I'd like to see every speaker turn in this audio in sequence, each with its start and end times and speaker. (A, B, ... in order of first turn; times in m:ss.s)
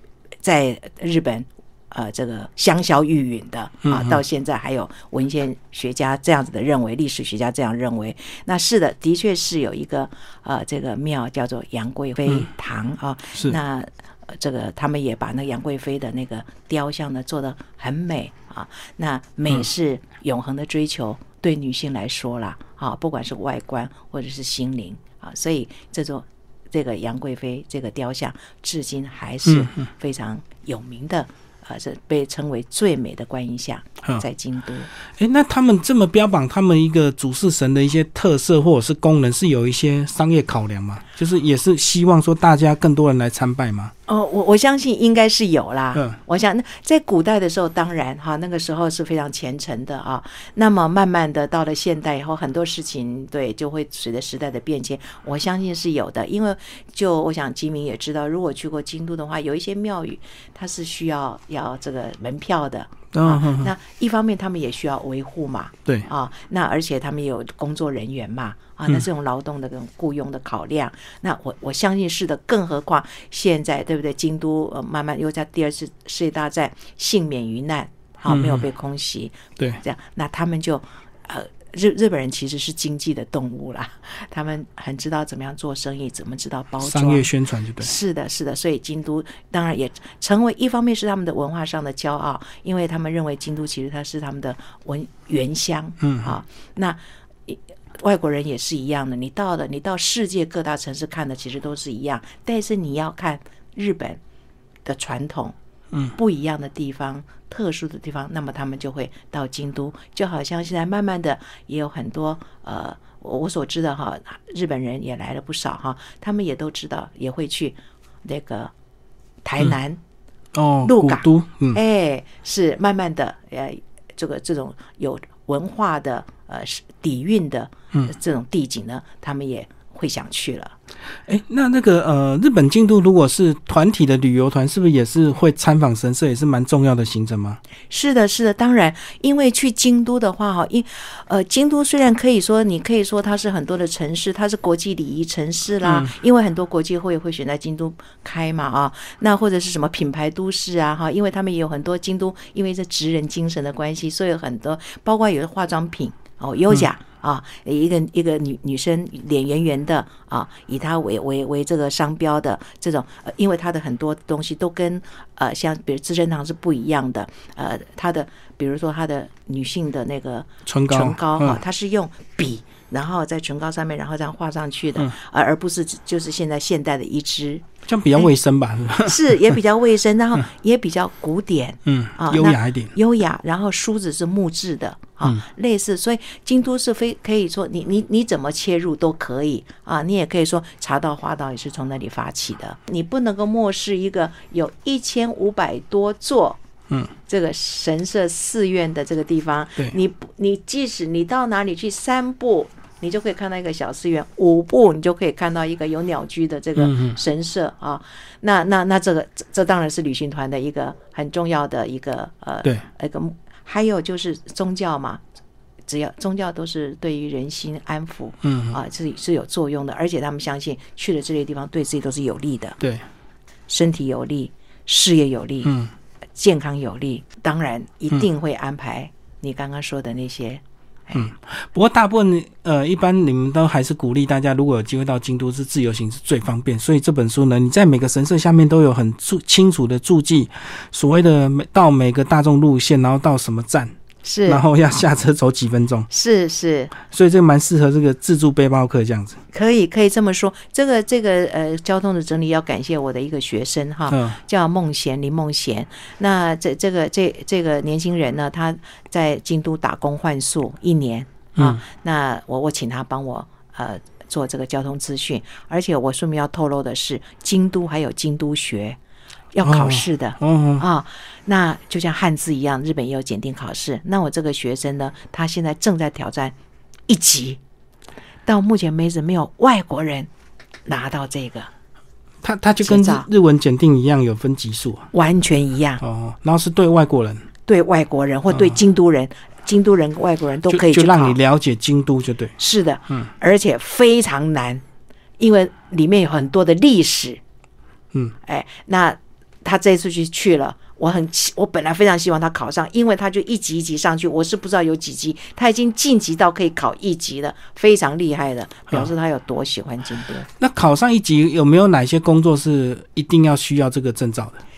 0:00.4-0:34.9 A
0:03.8-0:04.2 B
0:29.5-0:29.9 B
0:35.2-0:43.9 B
0:44.1-1:44.2 A
1:03.1-1:03.7 B
1:18.3-1:18.6 B
1:26.8-1:27.9 B
1:36.0-1:36.3 B
1:44.8-1:45.6 A
1:46.2-1:58.7 A
1:59.4-2:00.0 A
2:00.6-2:01.8 B
2:00.9-2:10.8 A
2:11.3-2:17.6 B
2:17.9-2:57.7 A
2:25.8-2:26.1 B
2:50.7-2:51.6 B
2:57.9-2:59.5 B
2:59.0-3:16.6 A
3:01.9-3:03.0 B
3:17.3-3:35.2 A
3:26.8-3:27.2 B
3:35.9-3:42.8 A
3:38.4-3:38.8 B
3:42.8-3:43.0 B
3:43.7-3:45.7 A
3:45.6-3:45.9 B
3:46.4-3:51.3 A
3:51.2-4:04.0 B
4:04.2-4:04.6 A
4:04.5-4:06.1 B
4:06.1-4:06.9 A
4:07.0-4:09.4 B
4:09.5-4:29.0 A
4:14.1-4:14.4 B
4:21.6-4:21.8 B
4:29.5-4:36.6 A
4:29.6-4:30.8 B
4:37.1-4:37.6 A
4:38.5-4:40.3 A
4:40.9-4:41.7 A
4:42.4-4:45.1 B
4:42.8-4:43.3 A
4:45.1-4:46.0 A
4:46.0-4:47.5 B
4:47.7-4:51.4 A
4:48.5-4:48.8 B
4:50.7-4:52.6 B
4:52.6-4:54.8 A
4:55.4-4:57.4 A
4:58.4-5:10.5 A
5:10.6-5:14.6 B